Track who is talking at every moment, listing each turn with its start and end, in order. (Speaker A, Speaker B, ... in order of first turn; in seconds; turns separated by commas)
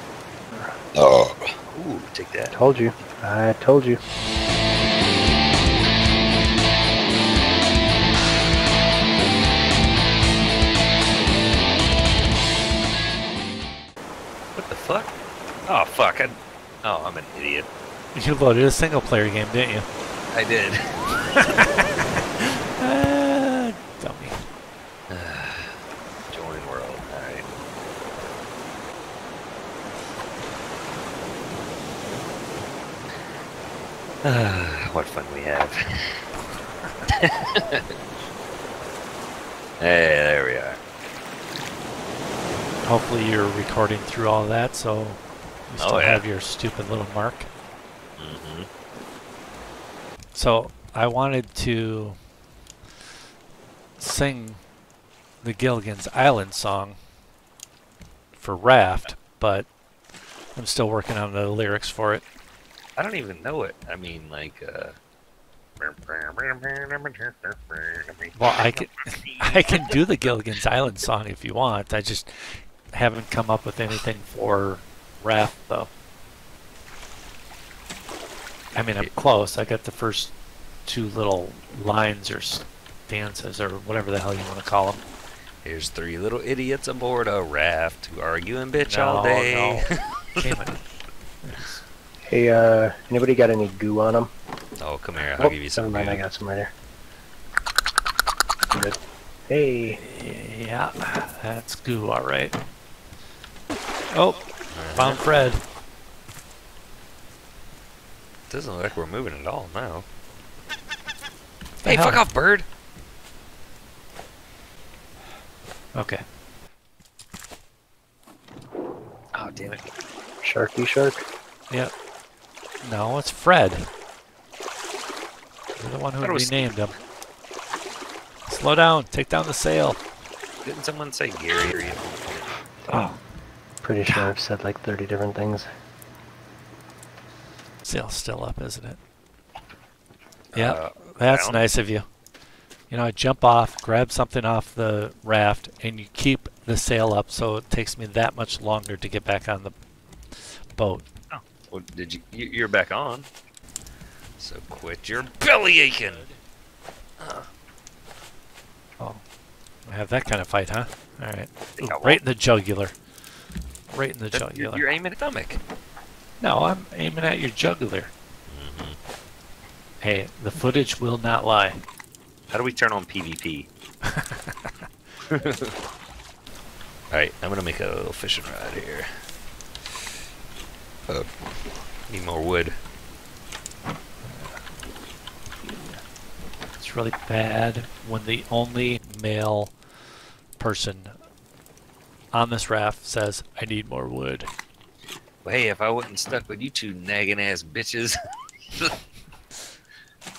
Speaker A: 0.9-2.5, Speaker B: 2.5-4.0, Speaker A: 14.6-15.1, Speaker A: 15.7-17.7, Speaker C: 18.1-19.9, Speaker A: 20.3-21.4, Speaker C: 21.4-21.7, Speaker C: 22.4-24.4, Speaker A: 25.1-25.8, Speaker A: 26.3-27.5, Speaker A: 34.2-36.2, Speaker A: 37.2-37.8, Speaker A: 39.8-40.8, Speaker C: 42.9-47.5, Speaker A: 45.8-46.2, Speaker A: 48.2-48.7, Speaker C: 50.4-52.2, Speaker C: 54.0-54.6, Speaker C: 55.4-57.0, Speaker C: 58.4-59.7, Speaker C: 60.5-62.2, Speaker A: 63.0-65.0, Speaker A: 65.8-70.0, Speaker C: 68.4-75.9, Speaker C: 78.8-80.3, Speaker C: 80.9-85.0, Speaker A: 85.7-90.5, Speaker C: 88.8-89.9, Speaker C: 90.4-90.8, Speaker C: 91.4-91.8, Speaker B: 92.3-94.3, Speaker A: 94.8-96.2, Speaker B: 95.4-96.7, Speaker B: 98.7-100.0, Speaker C: 99.9-102.6, Speaker C: 104.1-105.6, Speaker A: 104.7-105.2, Speaker A: 108.5-110.1, Speaker C: 111.8-112.2, Speaker A: 111.8-112.7, Speaker C: 116.0-116.2, Speaker A: 119.3-119.8, Speaker B: 120.4-121.2, Speaker C: 122.8-123.9, Speaker C: 125.8-126.9, Speaker A: 126.2-126.8, Speaker C: 128.5-130.0, Speaker A: 130.7-132.6, Speaker C: 132.9-133.2, Speaker B: 133.8-135.7, Speaker C: 134.1-134.3, Speaker C: 137.8-139.0, Speaker A: 140.5-141.7, Speaker C: 140.5-142.1, Speaker C: 142.9-149.8, Speaker C: 150.4-151.1, Speaker A: 151.3-153.3, Speaker A: 154.4-156.2, Speaker C: 155.8-156.4, Speaker A: 157.2-157.5, Speaker C: 159.9-162.9, Speaker A: 161.8-162.2, Speaker C: 163.9-164.8, Speaker A: 164.3-165.6, Speaker C: 166.4-168.1, Speaker A: 168.5-169.0, Speaker C: 170.0-171.8, Speaker A: 172.5-173.7, Speaker C: 174.1-174.7, Speaker A: 175.3-175.7, Speaker A: 177.1-179.1, Speaker A: 182.1-182.8, Speaker C: 184.2-184.6, Speaker C: 185.6-186.0, Speaker C: 186.8-189.8, Speaker C: 190.6-191.2, Speaker C: 192.3-194.5, Speaker A: 195.4-198.2, Speaker A: 198.7-199.0